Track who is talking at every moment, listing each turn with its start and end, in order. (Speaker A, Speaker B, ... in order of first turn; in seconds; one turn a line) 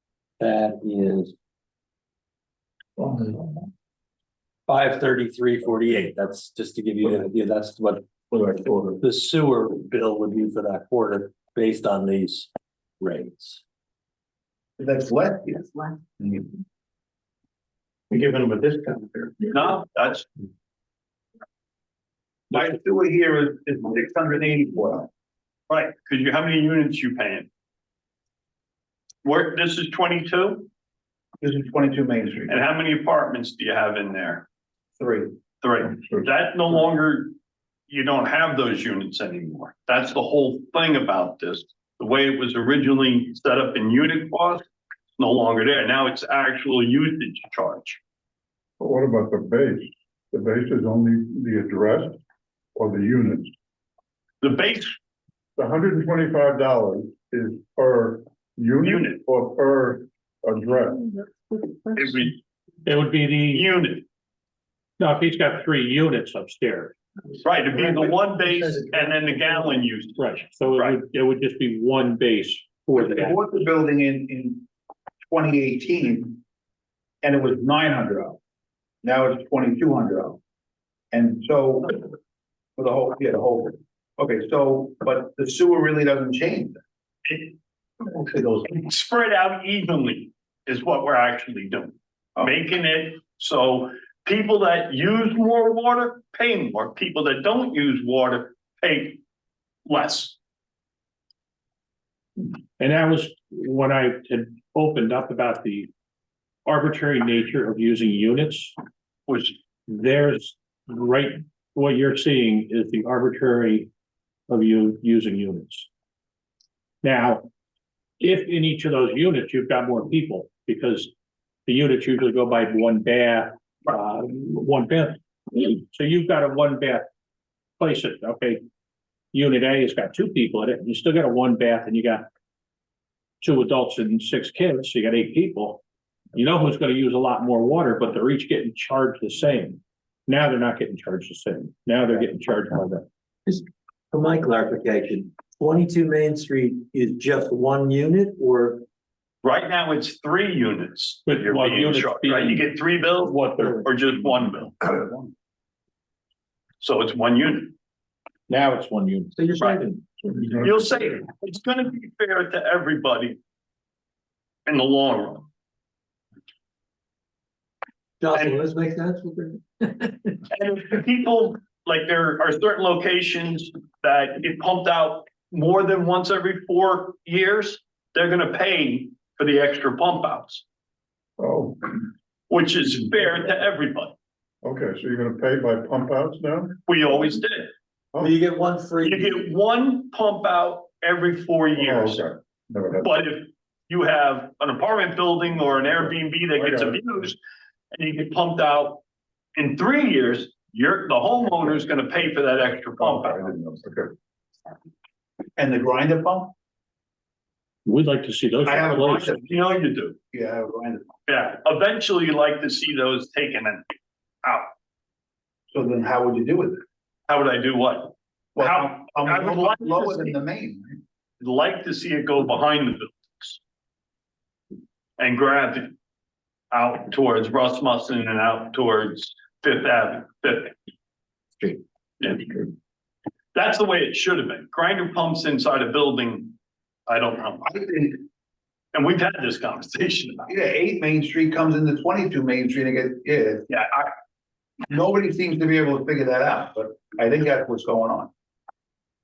Speaker A: 0.4-1.3
Speaker B: 3.0-3.3
Speaker A: 4.7-8.1
Speaker B: 8.3-8.9
Speaker A: 9.0-12.5
Speaker A: 13.0-13.6
Speaker C: 14.8-16.6
Speaker C: 18.1-19.5
Speaker D: 19.5-20.3
Speaker C: 22.5-25.1
Speaker D: 25.7-27.5
Speaker D: 29.2-30.7
Speaker C: 31.4-32.5
Speaker D: 32.5-34.5
Speaker C: 35.0-35.3
Speaker D: 35.6-37.3
Speaker B: 36.0-36.3
Speaker D: 37.9-44.6
Speaker D: 45.2-48.0
Speaker B: 48.8-52.2
Speaker B: 52.7-53.5
Speaker D: 54.4-54.9
Speaker B: 55.5-61.1
Speaker D: 58.8-59.2
Speaker D: 61.9-62.4
Speaker E: 62.9-63.7
Speaker D: 63.5-64.0
Speaker E: 65.0-67.0
Speaker D: 67.4-71.0
Speaker E: 70.2-73.4
Speaker C: 72.9-74.7
Speaker C: 75.2-76.4
Speaker C: 77.2-78.4
Speaker C: 79.0-80.4
Speaker C: 81.1-82.0
Speaker C: 82.8-86.8
Speaker C: 88.1-88.6
Speaker D: 88.6-99.2
Speaker D: 99.8-100.4
Speaker E: 102.8-105.9
Speaker E: 106.7-108.7
Speaker D: 109.3-109.5
Speaker E: 109.9-113.9
Speaker E: 114.5-115.9
Speaker E: 117.0-117.5
Speaker E: 118.2-121.1
Speaker E: 121.7-127.1
Speaker E: 127.8-128.6
Speaker E: 129.3-132.3
Speaker E: 133.4-135.8
Speaker E: 136.3-143.0
Speaker A: 143.4-148.8
Speaker D: 149.4-154.9
Speaker E: 151.3-152.7
Speaker E: 153.2-153.9
Speaker D: 156.8-157.7
Speaker E: 158.5-159.3
Speaker A: 159.3-160.0
Speaker B: 160.2-161.1
Speaker D: 160.6-163.4
Speaker D: 164.7-165.5
Speaker A: 168.2-170.4
Speaker D: 168.3-168.6
Speaker D: 170.5-180.6
Speaker B: 181.4-182.0
Speaker D: 182.5-184.1
Speaker B: 184.6-186.8
Speaker D: 186.9-187.7
Speaker A: 188.2-189.4
Speaker D: 189.0-192.2
Speaker B: 191.8-193.1
Speaker D: 193.0-197.4
Speaker B: 196.6-197.0
Speaker D: 197.9-199.0
Speaker D: 199.6-203.6
Speaker B: 203.0-204.1
Speaker C: 205.6-206.5
Speaker E: 207.8-209.3
Speaker C: 208.6-209.6
Speaker D: 208.9-210.2
Speaker C: 210.3-211.2
Speaker D: 211.3-213.9
Speaker D: 214.4-214.7
Speaker C: 215.7-216.8
Speaker D: 217.3-220.3
Speaker C: 218.6-221.0
Speaker D: 221.4-223.6
Speaker D: 225.2-225.9
Speaker D: 226.7-230.7
Speaker D: 232.2-232.7
Speaker D: 233.5-236.5
Speaker D: 237.1-237.7
Speaker C: 237.6-238.2
Speaker D: 238.9-240.5
Speaker C: 240.5-243.7
Speaker D: 243.7-244.1
Speaker C: 244.9-248.3